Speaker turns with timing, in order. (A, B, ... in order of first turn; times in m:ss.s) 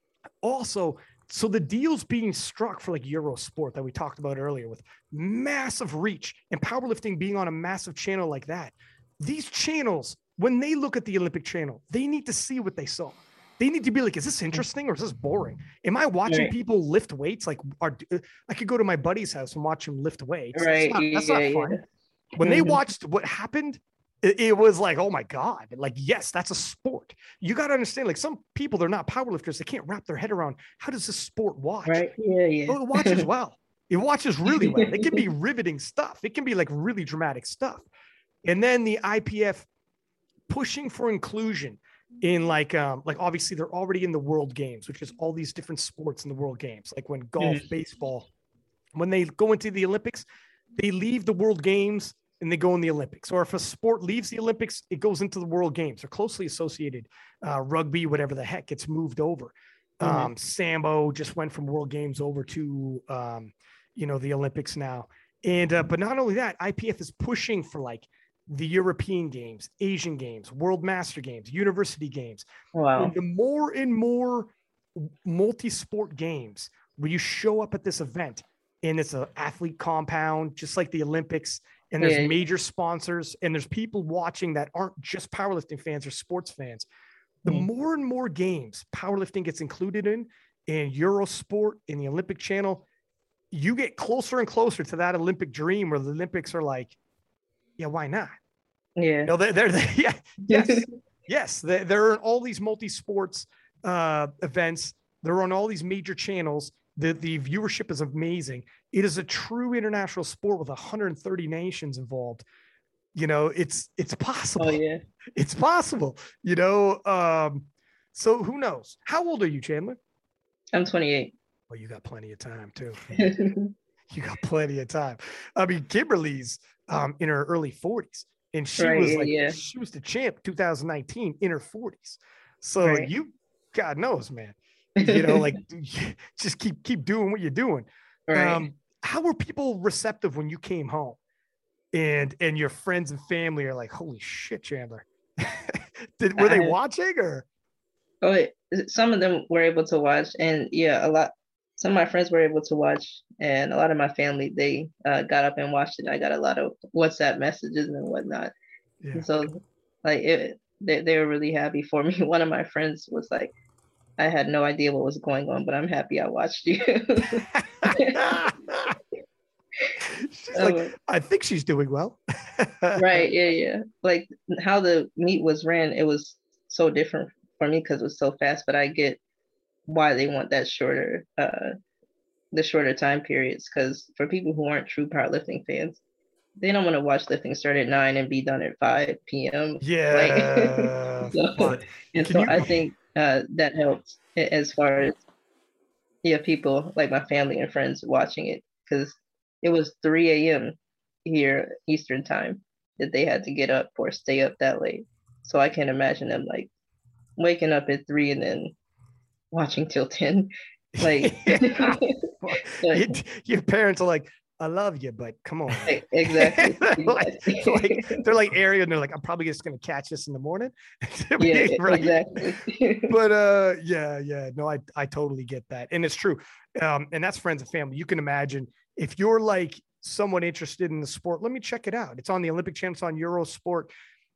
0:00.4-0:21.8 A
0:16.3-0:16.5 B
0:20.5-0:21.8 B
0:22.4-0:32.1 A
0:22.4-0:22.8 B
0:31.9-0:33.3 B
0:32.7-0:37.9 A
0:34.5-0:35.2 B
0:38.4-0:39.7 A
0:40.5-0:48.3 A
0:49.0-0:50.2 A
0:50.8-1:12.4 A
1:00.0-1:00.3 B
1:12.8-1:13.1 B
1:13.0-1:26.9 A
1:22.0-1:22.3 B
1:27.4-1:32.8 A
1:33.5-1:37.0 A
1:37.8-1:38.3 A
1:39.0-1:39.3 B
1:39.3-1:52.5 A
1:40.5-1:40.9 B
1:53.1-1:54.8 A
1:54.6-1:55.0 B
1:55.4-2:00.0 A
2:00.7-2:01.3 B
2:01.7-2:03.1 A
2:03.1-2:03.7 B
2:04.1-2:21.2 A
2:08.8-2:09.6 B
2:12.8-2:13.1 B
2:15.0-2:15.5 B
2:18.3-2:18.6 B
2:21.9-2:27.5 A
2:26.4-2:26.7 B
2:28.2-2:38.5 B
2:39.0-2:39.4 A
2:39.1-2:43.5 B
2:44.2-2:48.2 B
2:47.5-2:49.0 A
2:50.0-2:53.2 A
2:50.5-2:50.9 B
2:53.0-2:59.2 B
2:59.9-3:01.7 B
3:02.5-3:06.0 B
3:06.6-3:15.2 B
3:09.8-3:12.8 A
3:16.2-3:26.7 B
3:27.4-3:28.7 B
3:29.5-3:33.2 B
3:31.0-3:42.4 A
3:35.8-3:38.2 B
3:41.4-3:43.1 B
3:43.1-3:53.9 A